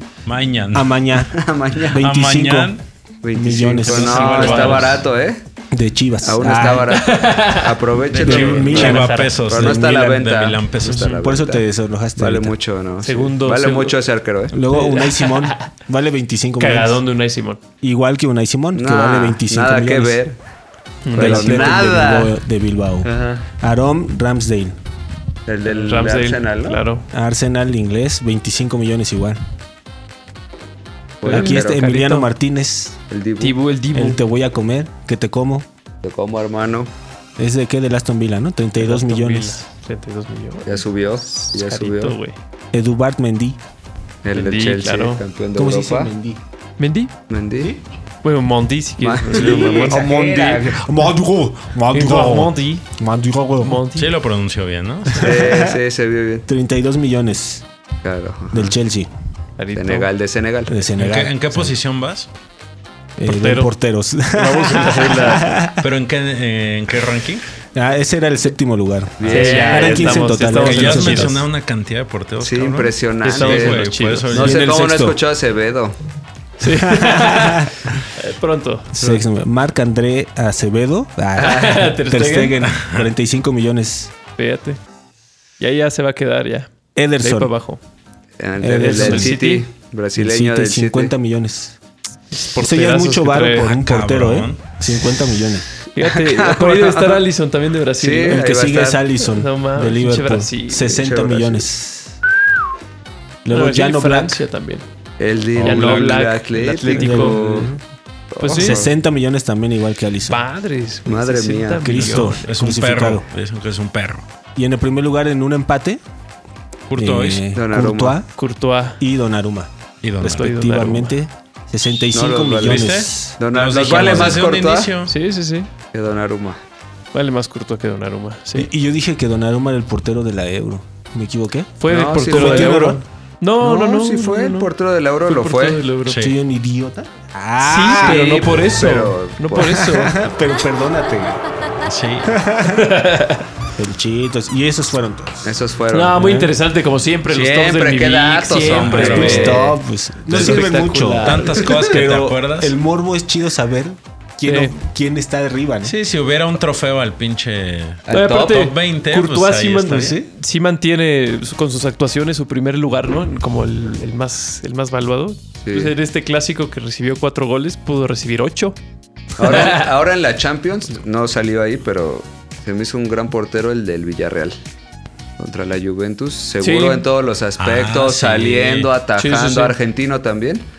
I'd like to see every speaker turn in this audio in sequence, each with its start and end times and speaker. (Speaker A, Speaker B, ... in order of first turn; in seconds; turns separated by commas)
Speaker A: 0.2-0.9, Speaker B: 0.7-2.7, Speaker C: 1.2-2.0, Speaker A: 1.9-2.8, Speaker C: 3.2-5.4, Speaker B: 3.3-4.7, Speaker A: 3.8-5.0, Speaker D: 4.0-5.0, Speaker B: 5.7-7.0, Speaker C: 6.2-11.6, Speaker D: 6.9-9.4, Speaker B: 8.2-10.3, Speaker A: 8.3-11.2, Speaker B: 11.0-12.6, Speaker C: 12.2-14.6, Speaker D: 13.0-14.0, Speaker B: 14.5-17.0, Speaker D: 14.7-15.7, Speaker D: 16.6-17.6, Speaker B: 17.8-20.2, Speaker C: 18.7-20.4, Speaker D: 21.0-21.9, Speaker C: 21.1-22.4, Speaker B: 21.1-24.8, Speaker C: 23.0-23.4, Speaker C: 25.4-26.8, Speaker D: 25.6-27.1, Speaker B: 27.1-29.4, Speaker C: 31.2-31.8, Speaker D: 31.2-32.3, Speaker B: 31.2-33.0, Speaker C: 33.1-33.6, Speaker D: 33.4-34.2, Speaker B: 33.9-35.7, Speaker C: 36.0-36.9, Speaker B: 37.4-39.6, Speaker D: 38.8-42.4, Speaker C: 40.6-42.2, Speaker B: 42.7-43.6, Speaker C: 44.2-46.1, Speaker D: 44.3-45.2, Speaker B: 45.5-46.4, Speaker D: 46.8-47.1, Speaker C: 47.3-47.8, Speaker D: 48.2-50.1, Speaker C: 49.0-51.0, Speaker B: 49.3-53.8, Speaker D: 51.9-52.9, Speaker D: 53.6-54.1, Speaker A: 54.0-55.4, Speaker B: 55.1-55.8, Speaker C: 55.2-56.5, Speaker B: 56.5-57.6, Speaker C: 58.0-58.8, Speaker B: 58.5-59.1, Speaker D: 59.6-60.1, Speaker C: 59.7-60.8, Speaker B: 60.7-61.7, Speaker A: 61.0-62.3, Speaker B: 63.2-65.9, Speaker D: 63.2-63.7, Speaker D: 64.3-65.5, Speaker A: 65.8-67.5, Speaker B: 67.7-71.4, Speaker C: 69.2-70.3, Speaker D: 69.2-71.4, Speaker A: 70.5-74.6, Speaker C: 72.4-76.0, Speaker D: 73.2-74.5, Speaker B: 74.3-75.2, Speaker D: 76.6-79.0, Speaker B: 76.6-77.7, Speaker B: 78.9-84.1, Speaker C: 79.0-79.2, Speaker C: 81.4-81.8, Speaker D: 81.4-82.7, Speaker A: 82.7-83.1, Speaker D: 84.4-84.8, Speaker D: 85.6-87.8, Speaker B: 87.0-87.5, Speaker C: 88.4-91.1, Speaker B: 88.6-89.4, Speaker D: 88.7-89.7, Speaker B: 90.1-91.8, Speaker D: 92.3-93.7, Speaker B: 92.5-95.7, Speaker A: 93.6-94.7, Speaker D: 95.9-98.5, Speaker C: 96.1-97.2, Speaker C: 98.0-99.1, Speaker B: 98.3-102.2, Speaker D: 99.2-101.0, Speaker C: 100.9-101.7, Speaker B: 103.4-104.4, Speaker D: 103.5-104.8, Speaker C: 105.2-107.7, Speaker A: 105.5-106.2, Speaker D: 105.6-107.4, Speaker B: 106.9-107.8, Speaker C: 108.3-108.9, Speaker D: 108.4-108.8, Speaker B: 108.5-110.4, Speaker D: 110.3-112.5, Speaker C: 111.0-111.9, Speaker B: 111.8-113.3, Speaker A: 112.0-114.2, Speaker B: 114.5-116.0, Speaker A: 116.9-117.5, Speaker B: 117.0-118.3, Speaker C: 117.5-118.2, Speaker D: 118.3-119.0, Speaker B: 119.0-123.4, Speaker A: 120.0-120.7, Speaker D: 120.2-121.2, Speaker C: 122.1-124.9, Speaker A: 122.6-125.1, Speaker D: 125.0-125.7, Speaker C: 125.9-126.6, Speaker D: 127.1-128.7, Speaker B: 128.5-133.0, Speaker D: 131.8-134.7, Speaker C: 131.9-132.9, Speaker C: 133.6-135.8, Speaker D: 135.3-136.2, Speaker A: 136.1-136.4, Speaker B: 136.1-138.4, Speaker D: 137.6-140.2, Speaker C: 137.9-139.9, Speaker B: 139.6-141.4, Speaker A: 141.8-142.3, Speaker B: 142.3-143.0, Speaker D: 142.6-143.5, Speaker B: 143.8-145.6, Speaker C: 145.4-146.4, Speaker D: 145.9-149.7, Speaker B: 146.2-146.5, Speaker C: 147.3-149.8, Speaker A: 148.6-149.6, Speaker B: 148.9-155.9, Speaker D: 150.3-151.7, Speaker A: 150.3-152.7, Speaker D: 154.4-154.8, Speaker A: 155.8-160.2, Speaker C: 158.1-158.7, Speaker D: 158.1-168.8, Speaker B: 159.9-160.3, Speaker C: 165.6-165.9, Speaker D: 169.4-169.9, Speaker C: 169.4-174.6, Speaker C: 175.4-180.6, Speaker D: 176.6-177.0, Speaker A: 177.6-178.9, Speaker D: 179.2-179.8